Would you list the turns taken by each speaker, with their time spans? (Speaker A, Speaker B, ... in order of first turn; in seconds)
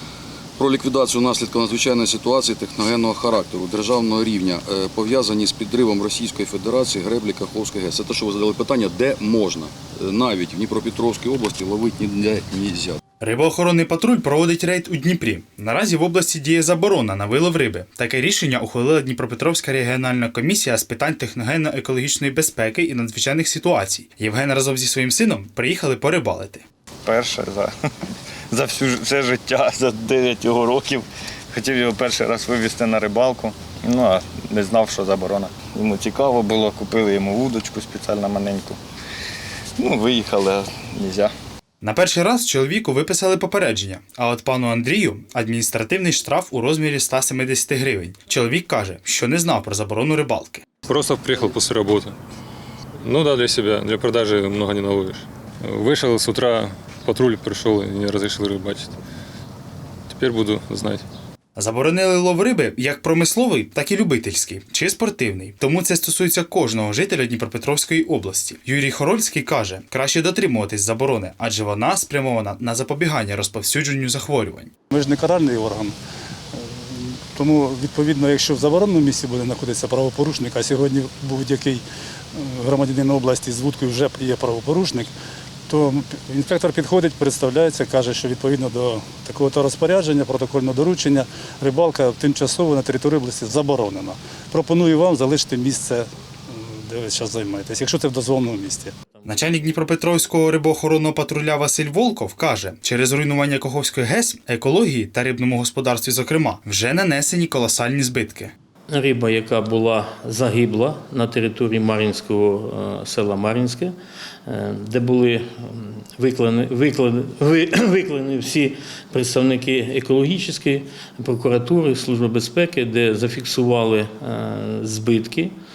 Speaker A: 0.6-13.0
Speaker B: 13.2-26.6, 41.8-50.6, 61.5-74.7, 99.2-108.5
Speaker C: 27.0-27.7, 28.5-38.8, 39.8-41.3
Speaker D: 50.9-52.1, 53.0-59.0, 60.1-61.0
Speaker E: 74.9-75.9, 76.9-81.8, 82.3-85.1, 85.7-98.9
Speaker F: 99.1-99.5, 108.9-113.9, 114.5-125.5